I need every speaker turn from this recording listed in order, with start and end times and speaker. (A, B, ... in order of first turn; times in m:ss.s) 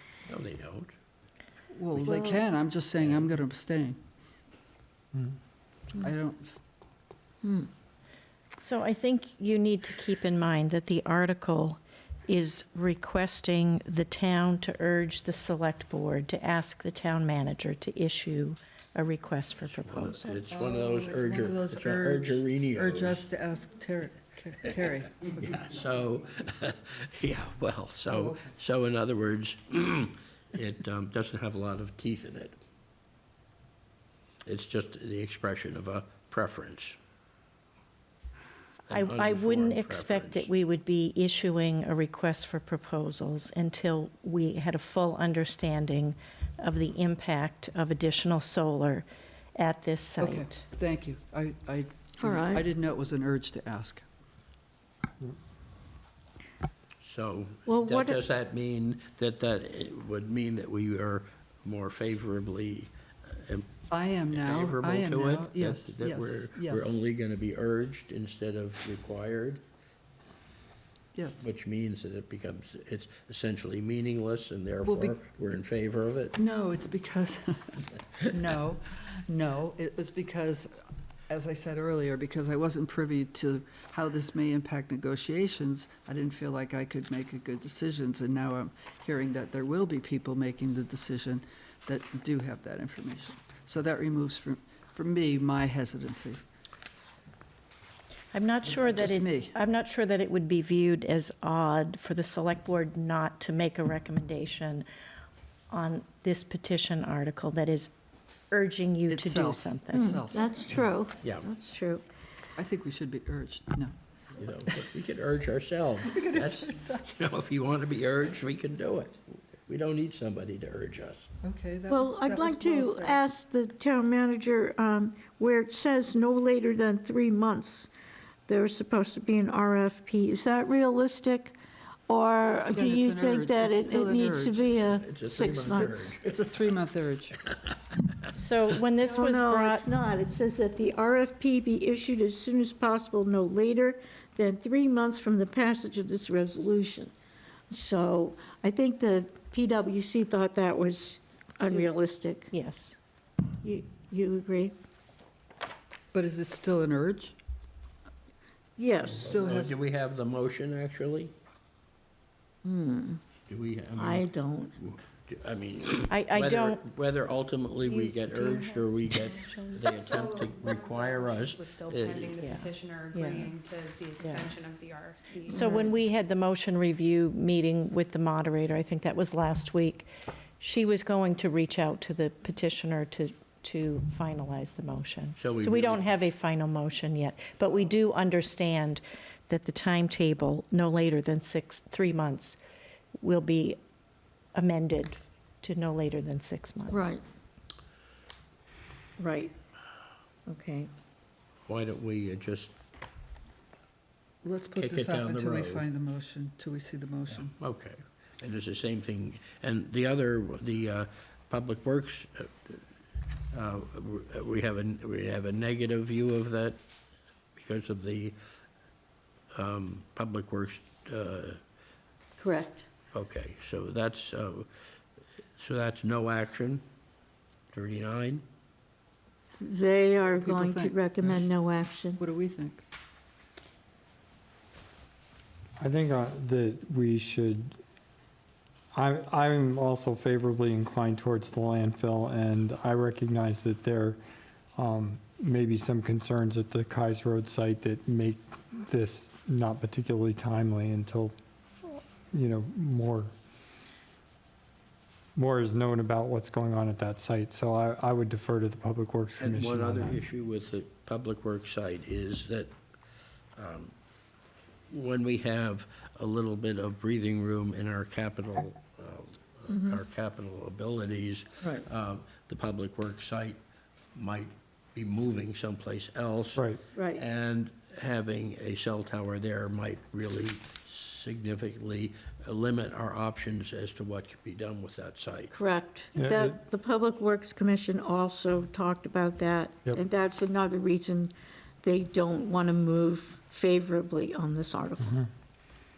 0:00.3-0:00.9 A
0:01.7-0:04.0 B
0:02.0-0:02.4 C
0:03.0-0:03.3 A
0:06.0-0:06.6 B
0:08.6-0:20.6 D
0:19.6-0:23.2 A
0:20.5-0:25.3 B
0:25.2-0:32.6 A
0:28.1-0:28.4 B
0:34.4-0:37.0 A
0:38.9-0:40.5 A
0:38.9-0:49.0 D
0:49.6-0:50.6 D
0:50.2-0:54.0 B
0:52.2-0:52.6 C
0:57.0-1:03.7 A
0:57.7-0:58.2 C
1:03.9-1:07.0 B
1:04.3-1:09.6 A
1:11.1-1:11.4 B
1:11.4-1:16.4 A
1:14.8-1:15.2 B
1:16.4-1:20.7 B
1:21.3-1:36.4 B
1:38.3-1:44.8 D
1:38.6-1:39.5 B
1:45.7-1:47.9 D
1:48.5-1:50.2 D
1:49.1-1:50.5 B
1:49.9-1:52.0 C
1:52.6-1:53.9 B
1:54.4-2:01.3 A
1:56.0-1:57.2 B
2:01.4-2:03.2 B
2:01.9-2:07.9 C
2:08.5-2:11.6 C
2:12.1-2:16.2 C
2:12.7-2:14.7 B
2:14.8-2:16.2 A
2:15.6-2:17.4 B
2:18.3-2:19.8 D
2:19.0-2:27.1 C
2:27.7-2:32.5 C
2:32.5-2:33.0 D
2:33.6-2:34.7 C
2:36.1-2:37.4 B
2:38.8-2:39.5 C
2:39.1-2:39.8 B
2:39.2-2:41.3 A
2:42.6-2:43.2 C
2:43.5-2:44.2 A
2:44.0-2:44.8 C
2:44.8-2:52.4 A
2:46.1-2:46.8 D
2:48.2-2:49.9 D
2:49.8-2:55.9 E
2:52.4-2:53.5 D
2:54.2-2:54.5 D
2:55.5-3:00.1 D
2:55.5-2:55.9 C
3:00.6-3:12.6 D
3:05.4-3:06.1 A
3:13.2-3:13.8 D
3:14.5-3:17.1 D
3:16.9-3:17.2 C
3:19.2-3:19.5 C
3:20.5-3:20.9 C
3:21.6-3:22.7 A
3:24.4-3:27.5 B
3:24.8-3:25.8 A
3:27.4-3:32.8 A
3:33.5-3:36.8 A
3:37.6-3:38.3 A
3:39.5-3:41.6 A
3:42.4-3:42.8 C
3:43.1-3:44.7 A
3:45.6-3:46.8 A
3:47.7-3:48.4 A
3:49.6-3:52.2 C
3:50.4-3:51.4 B
3:52.2-3:52.8 B
3:55.8-3:57.8 F
3:58.9-4:04.2 F
4:04.8-4:13.3 F
4:15.4-4:20.2 F
4:19.4-4:22.8 A
4:23.6-4:23.9 A
4:24.9-4:33.6 A
4:29.7-4:30.0 C
4:34.1-4:45.5 A
4:36.5-4:36.8 F
4:36.9-4:37.2 C
4:45.5-4:51.3 C
4:46.2-4:46.6 F
4:51.8-4:55.2 C
4:55.0-4:55.3 F